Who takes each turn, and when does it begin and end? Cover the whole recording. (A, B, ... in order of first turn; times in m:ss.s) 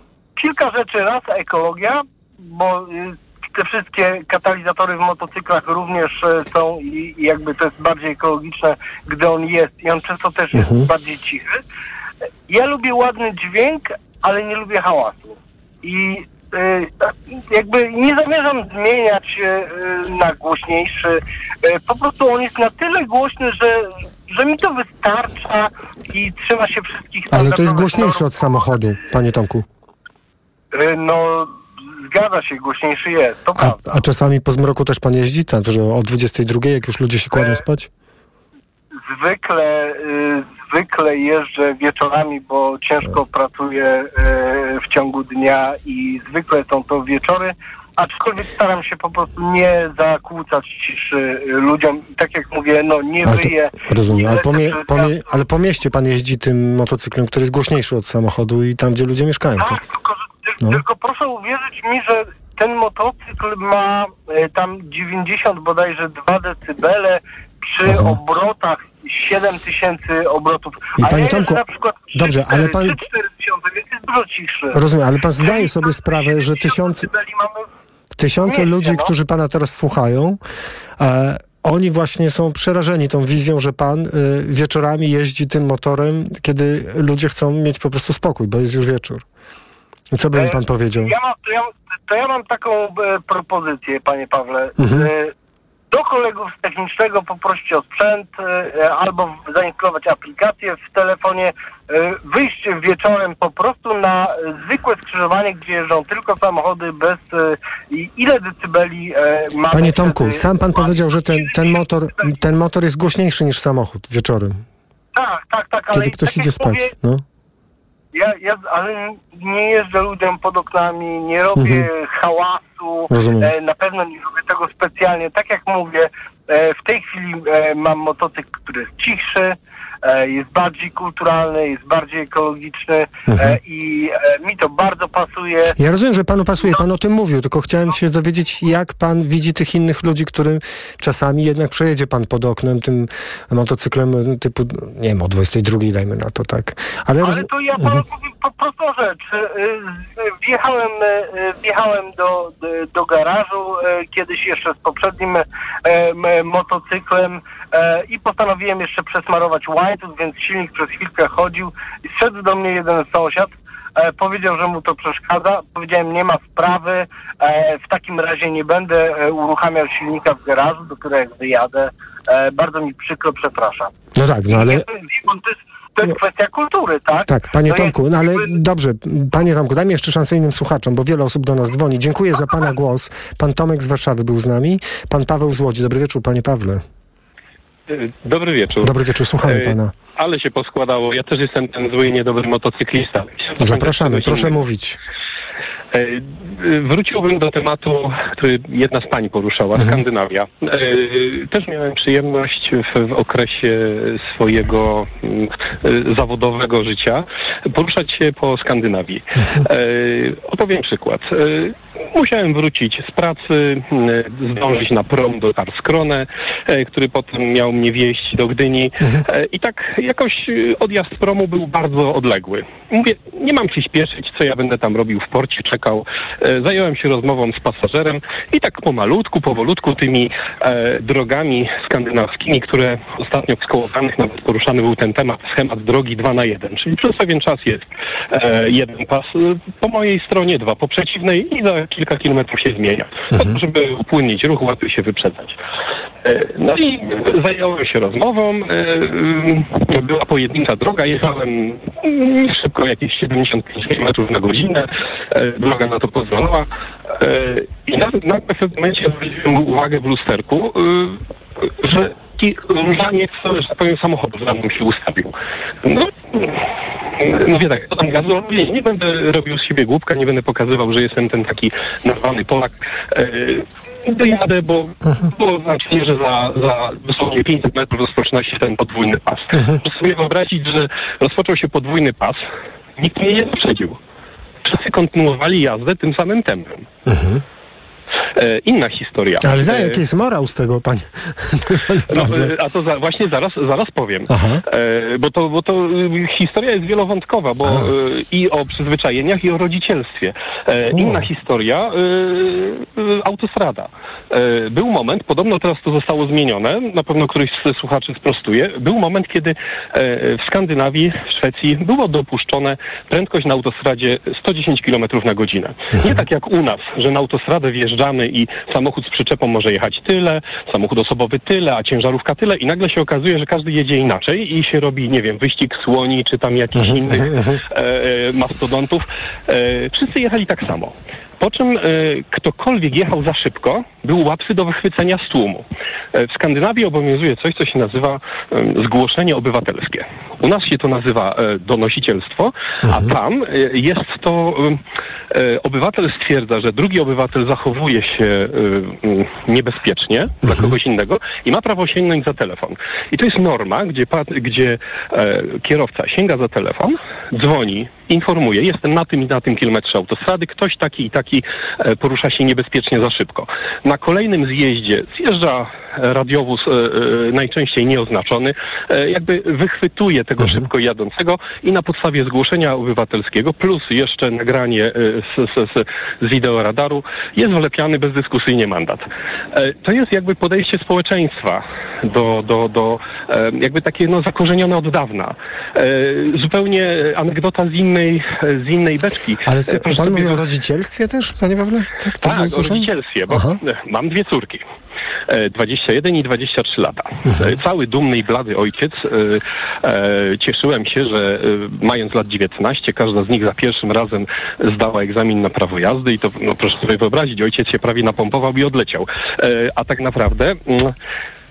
0:00.4-0:11.6 A
0:10.6-0:10.9 B
0:12.5-0:28.7 A
0:27.3-0:29.7 B
0:30.7-0:31.6 A
0:32.1-0:33.8 A
0:33.6-0:37.9 B
0:37.4-0:37.6 A
0:39.1-0:55.1 A
0:53.2-0:59.8 B
0:59.6-1:14.8 A
1:07.8-1:08.2 B
1:11.0-1:13.0 B
1:14.7-1:17.1 B
1:15.4-1:17.7 A
1:18.2-1:20.4 B
1:18.4-1:19.1 A
1:21.0-1:29.2 B
1:30.1-1:31.1 B
1:30.4-1:35.3 A
1:34.8-1:35.1 B
1:35.9-1:52.3 A
1:49.7-1:54.6 B
1:55.2-1:56.9 A
1:55.9-1:57.2 B
1:58.1-2:15.8 A
2:01.6-2:01.9 B
2:03.1-2:03.5 B
2:13.3-2:13.6 B
2:15.8-2:28.0 B
2:27.2-2:53.9 A
2:54.2-2:54.9 B
2:54.5-2:58.5 A
2:57.3-3:06.8 B
3:07.9-3:14.6 C
3:08.8-3:09.9 B
3:13.6-3:15.0 B
3:15.9-4:05.6 C
3:19.8-3:20.0 B
4:06.2-4:25.3 C
4:25.8-4:42.4 C
4:39.5-4:39.8 B
4:43.0-4:44.0 C
4:44.6-4:46.9 C
4:47.1-4:47.4 B
4:48.4-4:50.0 C
4:49.4-4:52.5 B
4:52.1-6:30.4 C
4:54.3-4:54.6 B
5:00.9-5:01.2 B
5:26.8-5:27.6 B
6:29.4-6:33.6 B
6:32.2-6:34.6 C
6:35.3-6:51.0 C
6:37.3-6:37.6 B